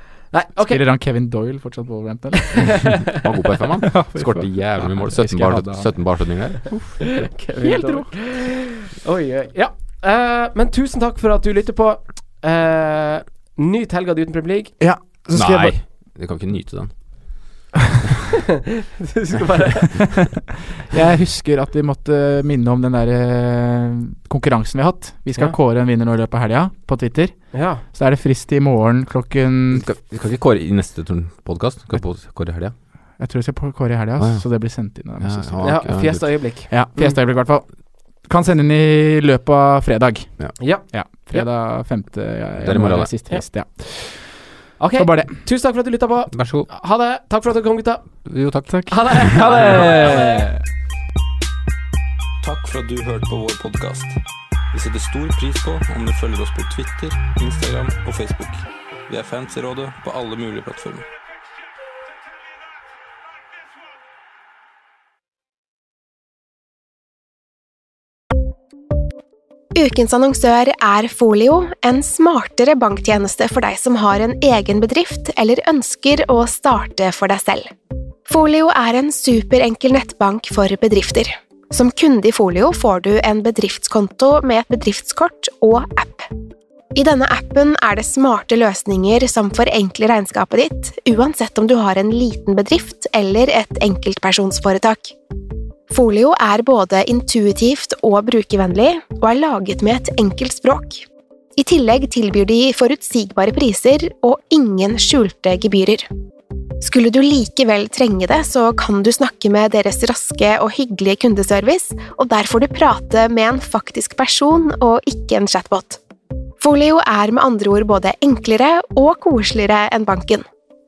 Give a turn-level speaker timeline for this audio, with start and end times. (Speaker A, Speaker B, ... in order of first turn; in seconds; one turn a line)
Speaker A: 0.3-0.8
Speaker B: 0.6-3.1
Speaker A: 2.5-2.9
Speaker C: 3.1-6.7
Speaker B: 3.9-8.1
Speaker A: 7.2-14.8
Speaker B: 14.8-15.8
Speaker C: 15.3-17.4
Speaker A: 19.0-20.3
Speaker B: 20.9-29.9
Speaker A: 27.5-27.8
Speaker C: 29.7-32.7
Speaker B: 32.7-44.4
Speaker C: 34.2-36.5
Speaker A: 35.6-37.2
Speaker A: 40.6-41.5
Speaker C: 42.6-43.3
Speaker A: 44.8-50.4
Speaker B: 45.0-45.4
Speaker C: 46.3-46.7
Speaker C: 48.2-49.8
Speaker B: 48.7-50.6
Speaker D: 52.4-54.2
Speaker D: 54.7-61.1
Speaker E: 69.8-77.7
Speaker E: 78.3-86.3
Speaker E: 86.9-95.1
Speaker E: 95.9-101.0
Speaker E: 101.6-106.1
Speaker E: 106.8-116.0
Speaker E: 116.6-120.4